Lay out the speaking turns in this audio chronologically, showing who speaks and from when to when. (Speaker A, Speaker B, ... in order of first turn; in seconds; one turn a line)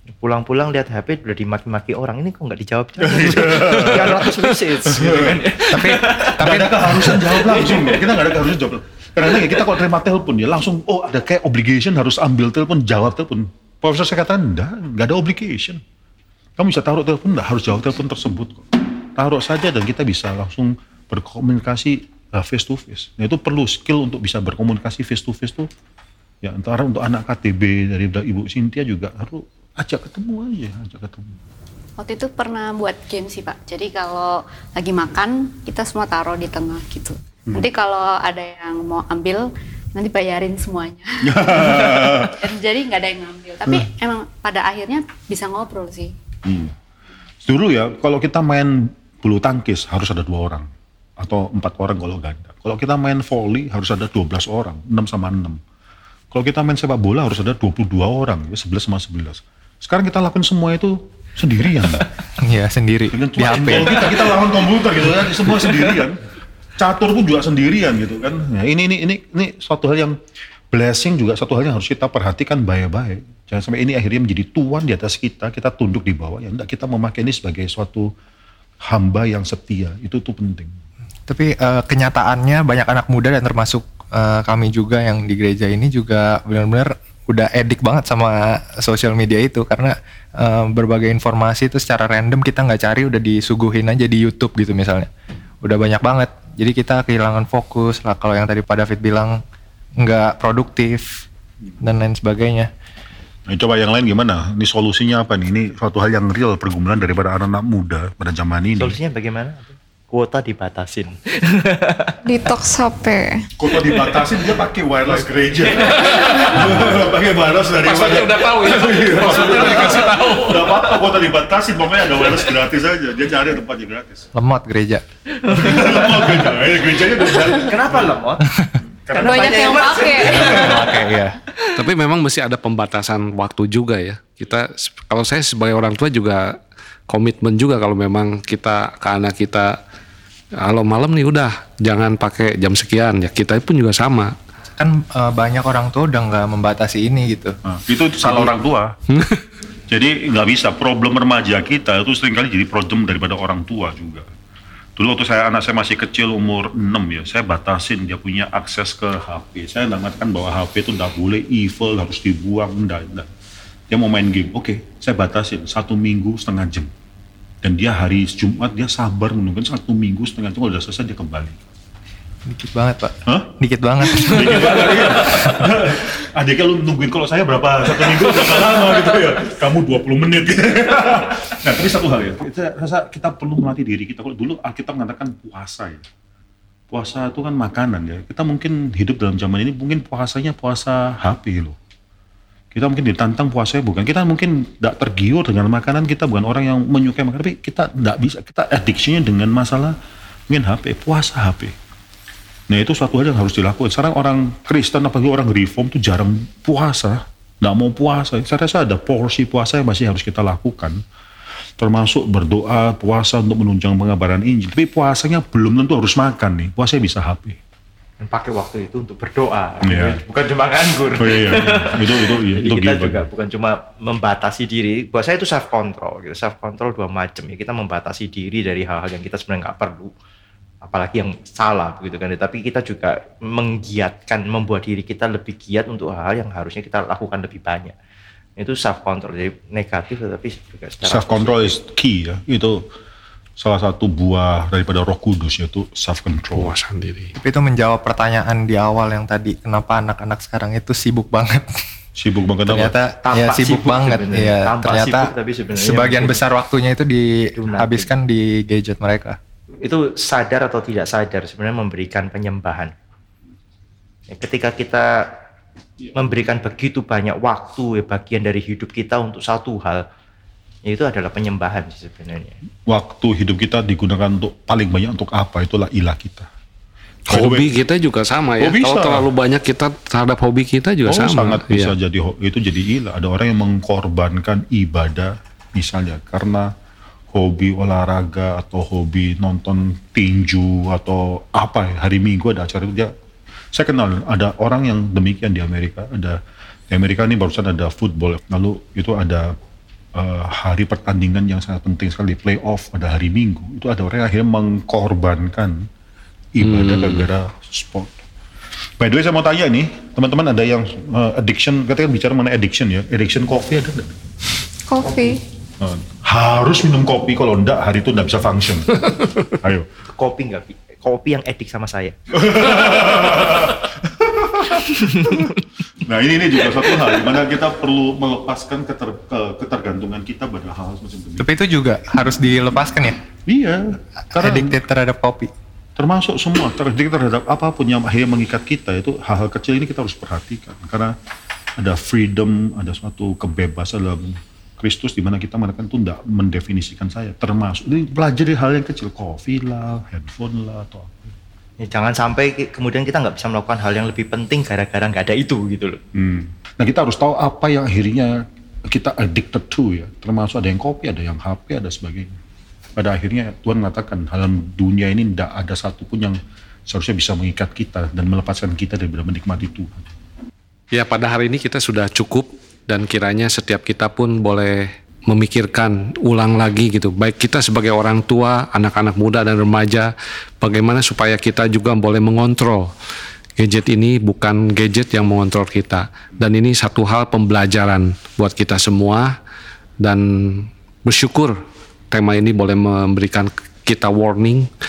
Speaker A: 0.2-8.4
Speaker B: 3.0-15.8
Speaker C: 5.7-7.2
Speaker B: 16.6-25.7
Speaker B: 26.4-31.4
Speaker D: 32.0-46.1
Speaker B: 41.2-42.5
Speaker B: 46.4-46.7
Speaker B: 47.4-55.6
Speaker B: 56.3-62.1
Speaker C: 62.4-64.2
Speaker B: 63.1-66.2
Speaker A: 65.6-66.0
Speaker B: 66.8-70.2
Speaker B: 70.7-78.1
Speaker B: 78.8-80.8
Speaker C: 81.3-95.1
Speaker C: 95.6-99.4
Speaker C: 100.0-101.3
Speaker C: 101.8-102.7
Speaker B: 103.5-109.0
Speaker A: 108.8-112.2
Speaker E: 112.2-113.5
Speaker B: 113.6-124.3
Speaker A: 113.9-114.2
Speaker A: 115.7-116.6
Speaker F: 115.9-117.0
Speaker F: 117.8-120.9
Speaker C: 124.3-125.0
Speaker A: 125.3-126.6
Speaker B: 125.5-128.2
Speaker A: 127.3-128.4
Speaker B: 129.0-129.7
Speaker A: 129.1-131.7
Speaker E: 129.2-130.8
Speaker C: 130.2-131.4
Speaker F: 131.8-136.6
Speaker F: 137.1-139.8
Speaker F: 140.6-144.3
Speaker C: 144.8-147.6
Speaker B: 147.6-148.9
Speaker F: 149.1-149.4
Speaker B: 149.9-154.3
Speaker B: 155.0-163.3
Speaker B: 163.9-166.9
Speaker B: 167.6-171.7
Speaker C: 172.5-175.2
Speaker B: 174.1-186.0
Speaker B: 186.9-191.8
Speaker B: 192.7-200.0
Speaker B: 200.5-201.7
Speaker B: 202.7-211.0
Speaker B: 211.8-217.6
Speaker A: 218.2-230.1
Speaker B: 219.8-220.2
Speaker B: 221.2-223.3
Speaker A: 230.8-237.9
Speaker A: 238.6-241.8
Speaker B: 241.0-242.8
Speaker B: 243.6-246.7
Speaker F: 246.5-247.3
Speaker C: 247.3-251.7
Speaker B: 252.2-252.9
Speaker C: 252.7-259.4
Speaker A: 253.2-256.4
Speaker A: 257.6-258.1
Speaker A: 259.8-262.9
Speaker A: 264.3-265.1
Speaker A: 266.1-270.0
Speaker A: 270.9-272.6
Speaker B: 272.9-276.5
Speaker B: 277.3-277.7
Speaker F: 277.3-281.9
Speaker B: 278.6-279.3
Speaker B: 281.0-286.7
Speaker B: 287.3-293.1
Speaker B: 293.7-296.4
Speaker B: 296.9-299.5
Speaker B: 300.1-305.8
Speaker B: 306.5-308.1
Speaker F: 306.6-307.2
Speaker B: 309.0-314.2
Speaker E: 314.9-315.4
Speaker B: 315.8-319.9
Speaker A: 320.1-322.1
Speaker B: 322.3-331.5
Speaker A: 324.8-325.6
Speaker C: 331.4-333.2
Speaker B: 333.5-334.8
Speaker C: 334.3-335.5
Speaker B: 336.0-341.1
Speaker B: 341.8-351.1
Speaker A: 351.8-356.0
Speaker B: 356.1-362.3
Speaker B: 363.0-370.1
Speaker F: 370.9-382.9
Speaker F: 383.6-389.3
Speaker F: 390.0-391.6
Speaker F: 392.1-394.7